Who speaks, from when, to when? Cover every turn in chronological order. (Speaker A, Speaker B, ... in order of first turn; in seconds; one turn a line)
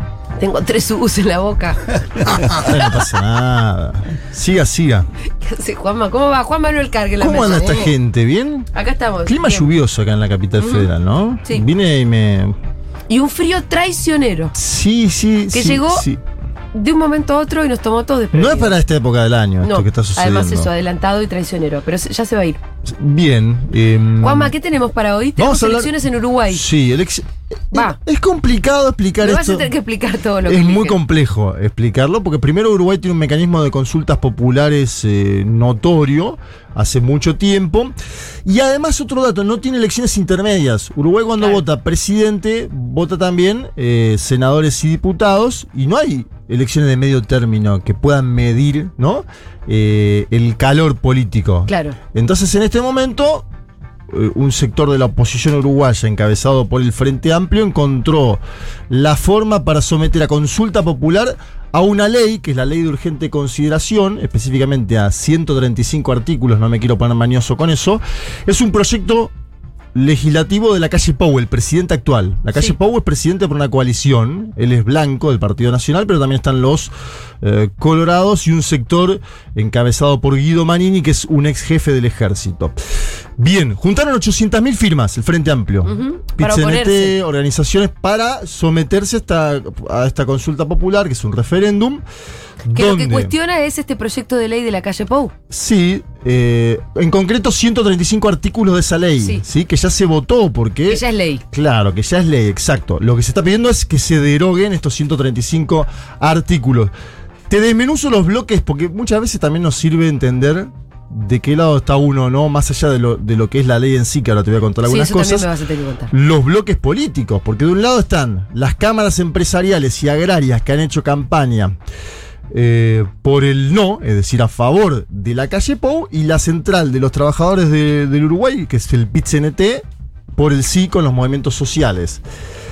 Speaker A: 0.4-2.7
Speaker B: 2.4-5.1
Speaker A: 5.4-7.8
Speaker B: 7.2-8.7
Speaker A: 8.7-9.7
Speaker B: 9.3-12.6
Speaker A: 10.6-10.9
Speaker A: 13.1-14.6
Speaker B: 14.6-16.2
Speaker A: 15.5-16.1
Speaker A: 16.7-18.7
Speaker B: 18.3-20.7
Speaker A: 19.6-22.6
Speaker B: 22.9-24.5
Speaker A: 24.2-26.6
Speaker B: 25.4-25.9
Speaker B: 26.5-29.7
Speaker A: 29.2-31.0
Speaker B: 30.4-38.0
Speaker B: 38.5-53.5
Speaker A: 51.7-52.0
Speaker B: 54.1-69.3
Speaker B: 69.9-82.8
Speaker B: 83.4-92.0
Speaker A: 85.8-87.2
Speaker B: 92.7-93.3
Speaker A: 92.7-95.3
Speaker B: 95.5-106.9
Speaker A: 100.9-101.4
Speaker B: 107.5-115.5
Speaker A: 114.8-116.1
Speaker B: 116.1-121.8
Speaker B: 122.5-129.8
Speaker B: 130.4-132.2